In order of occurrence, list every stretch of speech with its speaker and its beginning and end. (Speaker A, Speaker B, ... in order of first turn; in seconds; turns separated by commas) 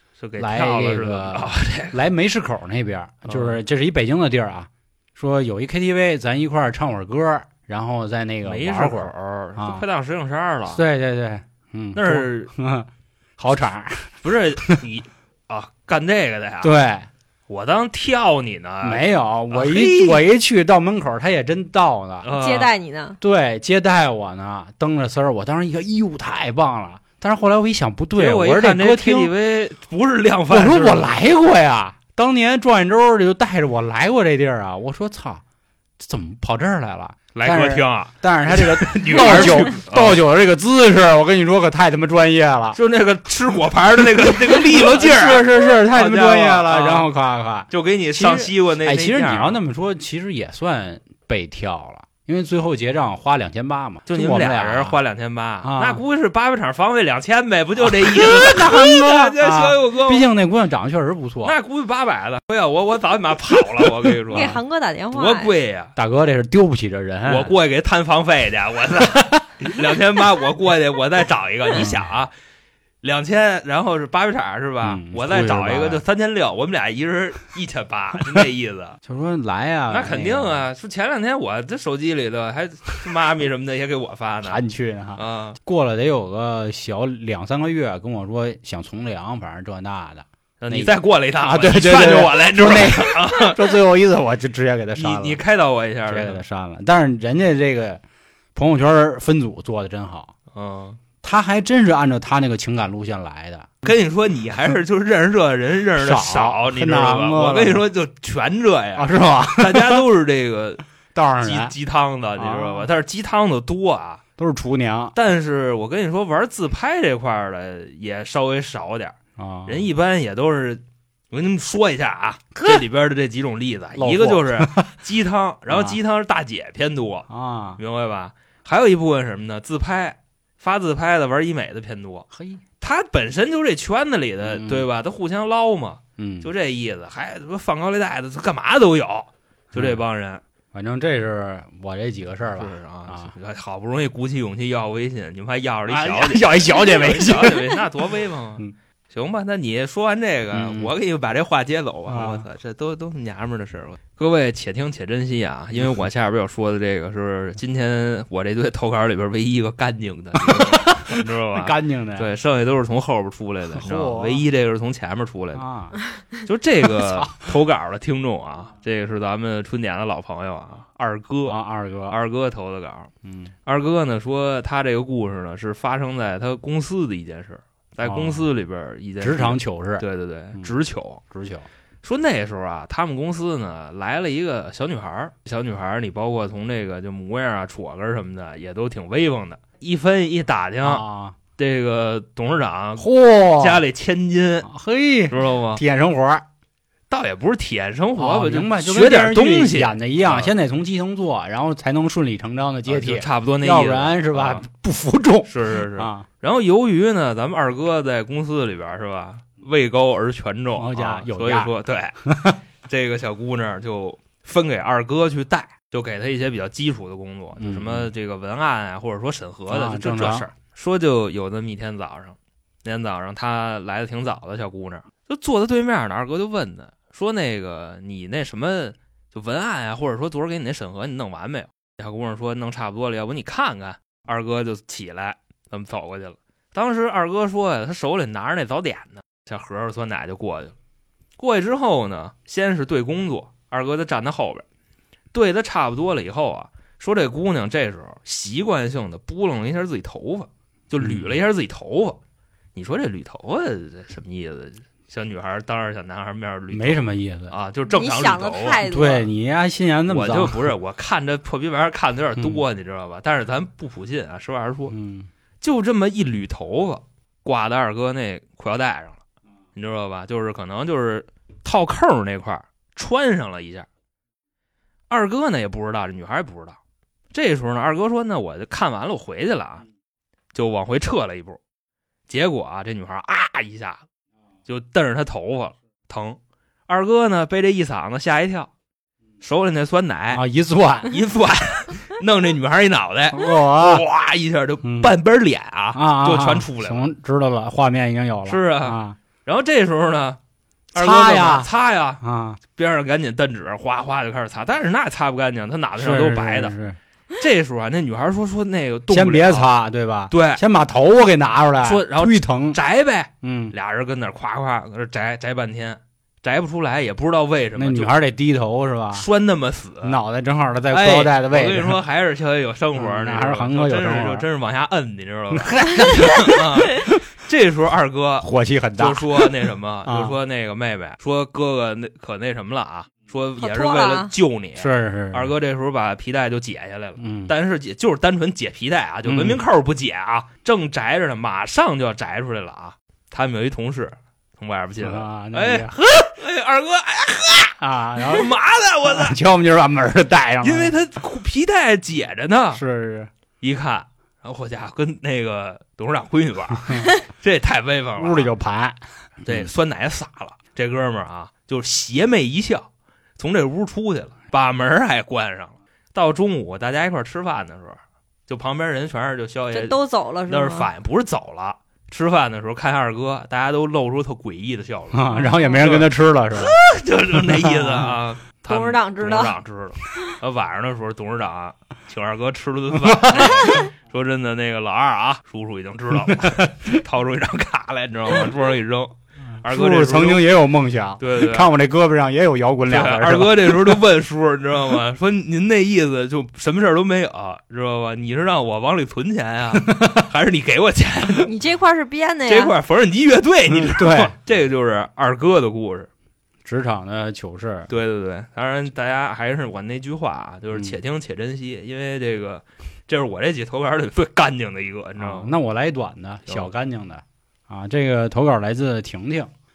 Speaker A: 0.2-2.0, Speaker B: 0.4-9.8, Speaker A: 3.3-3.6, Speaker A: 8.4-10.8, Speaker B: 10.7-14.8, Speaker A: 11.9-12.5, Speaker A: 14.2-16.7, Speaker B: 16.6-17.1, Speaker A: 17.5-20.2, Speaker B: 18.8-22.3, Speaker A: 22.2-22.7, Speaker C: 22.3-23.2, Speaker B: 23.2-29.3, Speaker A: 28.2-31.2, Speaker B: 30.5-35.4, Speaker B: 36.0-42.8, Speaker A: 37.4-40.2, Speaker A: 42.7-47.1, Speaker B: 44.4-55.0, Speaker A: 47.7-49.6, Speaker A: 54.1-60.3, Speaker B: 55.6-56.0, Speaker B: 57.8-61.5, Speaker A: 61.4-64.6, Speaker B: 64.3-64.6, Speaker C: 64.3-65.5, Speaker A: 65.1-65.9, Speaker B: 66.0-67.5, Speaker A: 67.3-72.3, Speaker B: 69.2-69.5, Speaker B: 71.7-72.0, Speaker A: 73.0-79.0, Speaker B: 74.8-76.0, Speaker B: 79.0-80.6, Speaker A: 79.9-84.6, Speaker B: 84.4-95.4, Speaker A: 85.2-85.6, Speaker A: 90.6-93.8, Speaker A: 95.0-96.4, Speaker B: 96.1-98.0, Speaker B: 98.5-100.3, Speaker A: 100.5-101.0, Speaker B: 101.2-103.9, Speaker A: 103.8-110.8, Speaker B: 106.0-107.8, Speaker B: 109.0-110.0, Speaker B: 111.2-111.7, Speaker A: 111.4-114.2, Speaker B: 112.4-112.9, Speaker B: 114.4-115.2, Speaker A: 115.2-132.3, Speaker B: 119.4-119.9, Speaker B: 122.6-122.8, Speaker B: 124.0-124.9, Speaker B: 125.7-126.0, Speaker B: 127.3-127.8, Speaker B: 132.3-132.6, Speaker A: 132.8-140.4, Speaker B: 134.4-134.9, Speaker B: 136.2-136.5, Speaker B: 139.7-140.0, Speaker B: 140.7-143.3, Speaker A: 142.5-165.6, Speaker B: 145.9-147.8, Speaker B: 150.5-150.9, Speaker B: 152.1-152.4, Speaker B: 160.4-162.3, Speaker B: 163.7-164.4, Speaker B: 165.6-166.0, Speaker A: 166.3-171.6, Speaker B: 166.9-167.5, Speaker B: 171.5-172.2, Speaker A: 172.1-173.1, Speaker B: 173.2-173.5, Speaker A: 173.7-181.2, Speaker B: 178.0-178.5, Speaker B: 179.2-180.0, Speaker B: 181.3-181.7, Speaker A: 182.0-191.0, Speaker B: 190.8-191.4, Speaker A: 191.6-194.7, Speaker B: 193.0-193.8, Speaker B: 194.7-196.4, Speaker A: 195.3-195.8, Speaker A: 197.1-200.5, Speaker B: 198.2-206.3, Speaker A: 202.9-204.7, Speaker A: 205.5-212.2, Speaker B: 210.8-211.7, Speaker B: 212.2-212.6, Speaker A: 212.8-240.7, Speaker B: 217.6-218.1, Speaker B: 219.7-220.5, Speaker A: 241.4-244.7, Speaker A: 245.3-252.2, Speaker B: 251.0-251.3, Speaker A: 252.8-258.8, Speaker B: 256.7-257.5, Speaker C: 257.9-259.3, Speaker B: 258.9-260.7, Speaker A: 260.1-264.9, Speaker B: 262.4-262.6, Speaker B: 264.9-265.3, Speaker A: 265.6-269.2, Speaker A: 269.8-273.9, Speaker A: 275.1-276.8, Speaker A: 277.3-279.8, Speaker A: 280.5-281.6, Speaker A: 282.3-284.0, Speaker A: 284.7-288.7, Speaker A: 289.4-290.4, Speaker B: 290.3-291.2, Speaker A: 291.1-297.1, Speaker B: 293.3-294.1, Speaker B: 294.8-295.1, Speaker B: 295.9-299.2, Speaker A: 298.5-300.4, Speaker A: 300.9-302.2, Speaker B: 300.9-301.7, Speaker B: 302.2-302.6, Speaker A: 302.8-306.7, Speaker B: 306.0-307.0, Speaker A: 307.4-309.7, Speaker B: 309.1-312.8, Speaker A: 310.3-310.6, Speaker A: 311.8-318.1, Speaker B: 313.4-313.7, Speaker B: 317.8-319.3, Speaker A: 319.1-320.2, Speaker B: 320.0-322.0, Speaker A: 320.9-349.4, Speaker B: 322.9-324.5, Speaker B: 325.5-327.2, Speaker B: 328.4-329.5, Speaker B: 330.1-330.4, Speaker C: 333.6-334.3, Speaker B: 334.8-335.5, Speaker B: 337.2-337.5, Speaker B: 339.2-339.6, Speaker B: 345.0-346.0, Speaker B: 347.8-348.5, Speaker B: 349.0-350.9, Speaker A: 350.6-352.8, Speaker B: 352.7-353.3, Speaker A: 353.6-358.5, Speaker B: 358.2-359.7, Speaker A: 359.5-390.4, Speaker C: 369.7-370.9, Speaker B: 375.1-376.8, Speaker B: 377.4-378.1, Speaker C: 378.7-379.6, Speaker B: 382.9-383.9, Speaker B: 386.3-387.0, Speaker B: 389.6-394.0, Speaker A: 391.2-391.7, Speaker A: 392.9-401.5, Speaker B: 399.8-400.2, Speaker C: 401.4-402.8, Speaker A: 402.5-406.1, Speaker B: 403.7-404.4, Speaker B: 406.6-407.9, Speaker A: 407.9-415.5, Speaker B: 415.2-419.5